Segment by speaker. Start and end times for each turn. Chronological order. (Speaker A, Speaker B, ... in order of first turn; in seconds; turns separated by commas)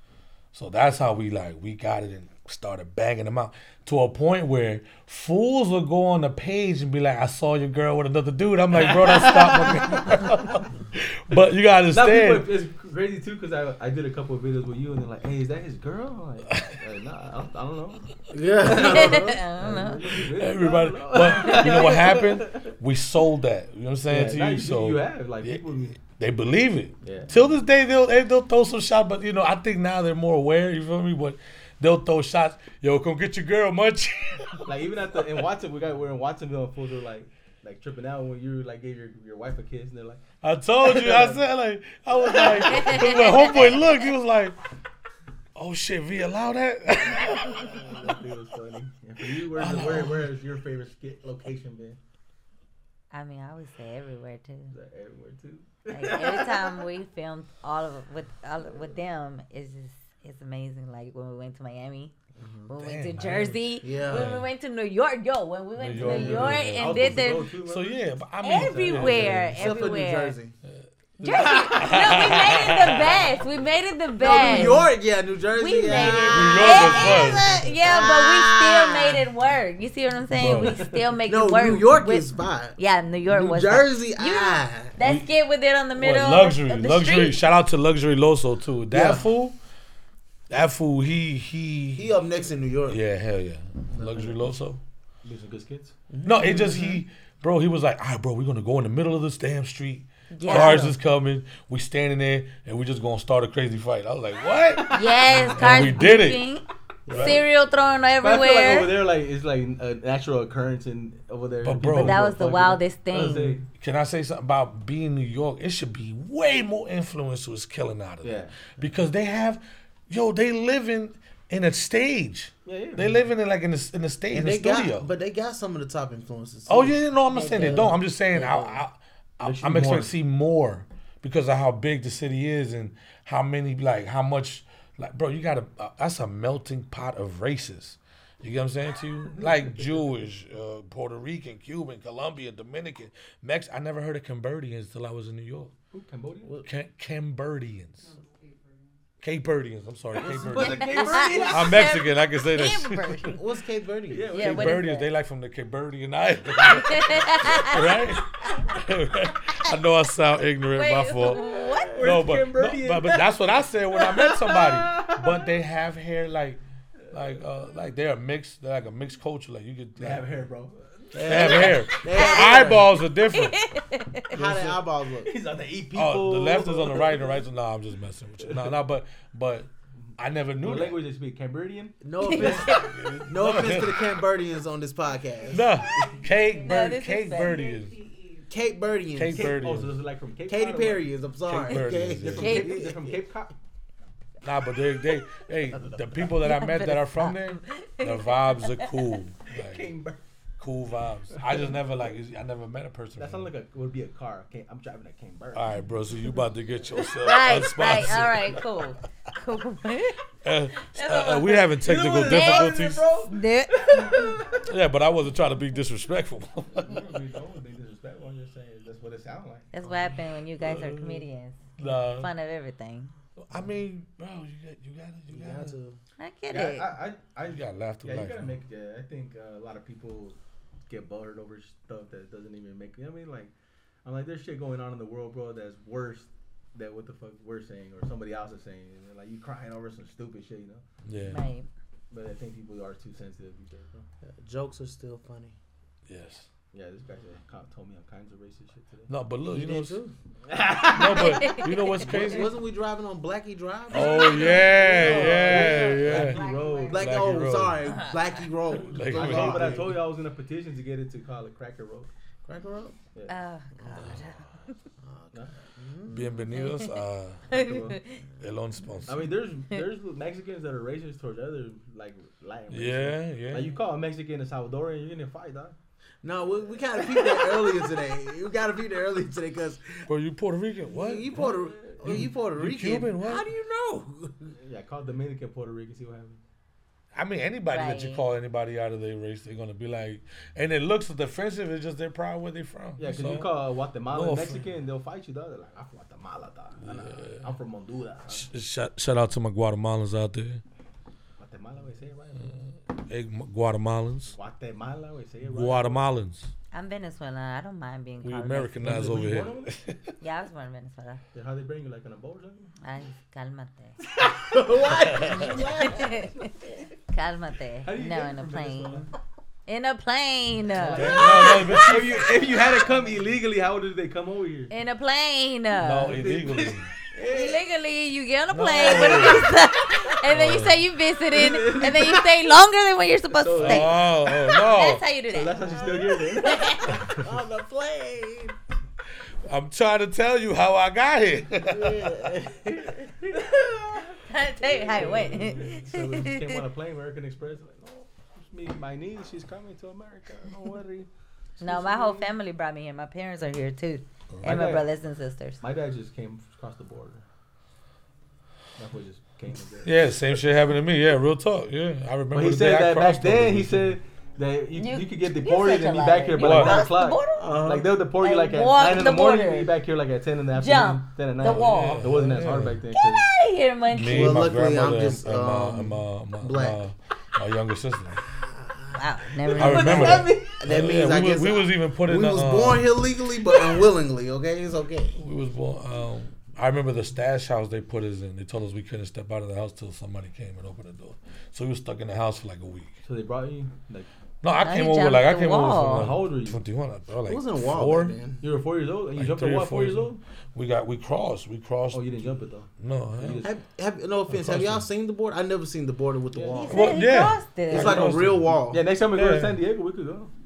Speaker A: 0.5-12.4, Speaker B: 8.7-10.3, Speaker B: 11.9-22.7, Speaker C: 18.3-19.4, Speaker D: 18.6-20.1, Speaker A: 20.3-34.7, Speaker D: 21.4-22.1, Speaker B: 24.1-26.0, Speaker B: 27.0-27.3, Speaker B: 34.6-40.2, Speaker A: 40.4-44.6, Speaker B: 40.8-41.4, Speaker B: 42.1-43.7, Speaker D: 42.9-43.5, Speaker A: 45.5-48.1, Speaker B: 47.1-52.0, Speaker A: 49.4-50.2, Speaker D: 53.1-54.7, Speaker B: 54.7-56.8, Speaker D: 55.9-62.1, Speaker C: 62.4-62.7, Speaker D: 62.7-67.5, Speaker A: 62.8-64.5, Speaker C: 63.8-64.3, Speaker A: 65.8-69.7, Speaker C: 66.0-66.5, Speaker B: 66.0-69.5, Speaker D: 68.4-70.3, Speaker C: 69.5-70.6, Speaker D: 71.2-74.8, Speaker B: 71.2-72.3, Speaker A: 71.6-73.1, Speaker C: 74.2-79.2, Speaker B: 74.3-74.8, Speaker D: 75.5-87.4, Speaker A: 76.2-77.6, Speaker B: 77.3-78.0, Speaker A: 80.3-80.8, Speaker B: 80.4-81.0, Speaker C: 81.3-85.0, Speaker A: 85.0-85.3, Speaker A: 86.0-89.6, Speaker C: 88.9-89.3, Speaker A: 90.5-92.1, Speaker C: 91.9-93.0, Speaker A: 92.9-94.8, Speaker C: 93.9-94.4, Speaker B: 95.2-96.0, Speaker C: 96.1-97.0, Speaker A: 96.2-106.4, Speaker D: 96.5-96.9, Speaker D: 100.3-100.9, Speaker B: 100.5-100.9, Speaker D: 104.9-108.9, Speaker C: 107.1-107.4, Speaker A: 107.1-107.4, Speaker B: 108.2-113.6, Speaker A: 111.6-112.2, Speaker D: 112.0-113.6, Speaker A: 113.7-125.1, Speaker B: 118.2-118.5, Speaker B: 122.7-123.2, Speaker C: 124.3-128.8, Speaker A: 126.7-145.7, Speaker B: 129.4-130.1, Speaker B: 145.9-146.6, Speaker A: 146.6-148.1, Speaker A: 149.2-153.4, Speaker B: 150.1-151.9, Speaker C: 150.2-151.5, Speaker D: 150.6-153.4, Speaker C: 153.3-154.3, Speaker B: 154.1-154.9, Speaker D: 154.3-155.1, Speaker A: 154.3-161.4, Speaker D: 156.7-158.7, Speaker D: 160.7-162.1, Speaker B: 161.3-163.4, Speaker A: 162.0-170.2, Speaker B: 163.9-165.5, Speaker B: 167.1-167.4, Speaker B: 170.0-171.9, Speaker C: 171.1-173.0, Speaker A: 171.2-173.6, Speaker D: 171.9-174.3, Speaker C: 174.3-175.3, Speaker B: 174.4-177.4, Speaker A: 175.9-181.0, Speaker B: 178.4-178.7, Speaker B: 180.0-182.8, Speaker C: 182.0-185.7, Speaker D: 182.2-182.9, Speaker A: 182.4-184.1, Speaker A: 185.5-188.0, Speaker D: 186.6-187.6, Speaker C: 188.5-189.6, Speaker A: 189.1-189.9, Speaker B: 189.3-191.1, Speaker C: 190.5-193.1, Speaker A: 191.4-192.6, Speaker B: 192.2-193.5, Speaker D: 192.4-192.9, Speaker A: 194.4-199.9, Speaker B: 195.7-196.3, Speaker D: 196.4-199.1, Speaker B: 199.5-200.2, Speaker A: 200.6-203.5, Speaker B: 201.3-201.8, Speaker B: 203.2-205.8, Speaker A: 205.5-208.9, Speaker D: 207.2-210.2, Speaker A: 210.4-213.1, Speaker D: 210.8-212.7, Speaker B: 211.8-214.7, Speaker D: 213.3-214.4, Speaker A: 214.6-217.2, Speaker B: 216.8-219.7, Speaker D: 219.7-223.1, Speaker A: 220.6-221.2, Speaker A: 221.8-222.3, Speaker A: 223.4-225.7, Speaker C: 225.3-226.0, Speaker D: 226.2-226.9, Speaker B: 226.5-233.5, Speaker A: 227.4-228.5, Speaker B: 234.0-240.8, Speaker A: 241.1-241.4, Speaker D: 241.2-241.7, Speaker B: 242.1-244.1, Speaker C: 244.2-245.6, Speaker A: 246.1-246.5, Speaker B: 246.7-249.1, Speaker A: 249.1-250.0, Speaker C: 249.4-250.1, Speaker B: 250.5-251.6, Speaker A: 250.9-252.5, Speaker D: 251.0-252.4, Speaker C: 252.0-256.3, Speaker A: 253.9-257.8, Speaker D: 253.9-257.1, Speaker B: 254.6-257.1, Speaker C: 256.9-259.9, Speaker D: 257.8-258.4, Speaker A: 258.8-260.0, Speaker B: 259.0-262.1, Speaker C: 262.4-263.0, Speaker D: 263.3-264.8, Speaker C: 263.8-264.2, Speaker A: 264.0-264.3, Speaker C: 265.0-266.4, Speaker A: 266.1-267.7, Speaker D: 266.5-266.9, Speaker B: 267.5-268.0, Speaker D: 267.5-268.2, Speaker A: 268.4-269.3, Speaker B: 269.1-275.7, Speaker A: 272.7-273.7, Speaker C: 276.2-280.1, Speaker A: 280.1-283.4, Speaker C: 280.9-284.6, Speaker B: 281.3-282.3, Speaker B: 284.6-286.4, Speaker A: 287.1-293.5, Speaker D: 287.7-288.2, Speaker B: 293.0-298.5, Speaker A: 294.1-294.6, Speaker A: 296.8-297.5, Speaker A: 298.3-300.6, Speaker B: 301.4-302.6, Speaker A: 302.5-304.3, Speaker B: 304.3-306.1, Speaker A: 305.4-306.5, Speaker D: 306.7-308.9, Speaker A: 308.2-310.0, Speaker B: 308.8-309.8, Speaker D: 310.2-311.2, Speaker B: 311.3-312.7, Speaker D: 312.8-314.0, Speaker B: 314.0-314.6, Speaker C: 314.4-316.3, Speaker A: 315.1-315.5, Speaker D: 315.2-316.5, Speaker B: 315.8-316.8, Speaker D: 317.1-319.1, Speaker B: 317.8-319.1, Speaker D: 319.7-322.0, Speaker B: 320.7-324.7, Speaker A: 320.9-322.7, Speaker D: 324.7-326.2, Speaker A: 325.8-326.9, Speaker B: 326.0-327.6, Speaker D: 327.2-337.0, Speaker A: 328.5-329.5, Speaker B: 328.8-329.4, Speaker A: 330.3-330.8, Speaker B: 331.3-332.3, Speaker B: 333.4-334.1, Speaker A: 333.6-335.0, Speaker B: 335.3-337.3, Speaker C: 337.1-338.6, Speaker A: 339.4-342.1, Speaker C: 341.6-343.1, Speaker B: 342.2-352.3, Speaker D: 344.2-346.6, Speaker D: 351.6-355.6, Speaker B: 354.4-354.9, Speaker B: 355.6-357.2, Speaker B: 358.8-360.0, Speaker A: 359.8-364.0, Speaker B: 362.3-373.3, Speaker D: 364.7-367.6, Speaker A: 366.4-366.8, Speaker D: 368.2-369.7, Speaker D: 370.6-372.2, Speaker A: 371.4-372.8, Speaker D: 372.9-374.4, Speaker A: 373.9-378.2, Speaker C: 374.0-376.8, Speaker C: 378.3-379.0, Speaker D: 378.9-380.3, Speaker B: 379.4-380.6, Speaker A: 379.6-382.9, Speaker C: 380.4-385.2, Speaker A: 385.1-393.0, Speaker B: 393.0-394.1, Speaker A: 394.4-398.1, Speaker D: 394.6-396.1, Speaker B: 395.9-396.6, Speaker C: 397.2-398.4, Speaker B: 398.4-400.2, Speaker A: 399.1-403.4, Speaker B: 401.9-403.5, Speaker C: 403.4-407.0, Speaker A: 404.3-404.9, Speaker B: 406.3-406.7, Speaker D: 406.6-408.1, Speaker A: 406.7-408.6, Speaker C: 407.7-408.8, Speaker B: 408.7-410.3, Speaker A: 409.1-409.6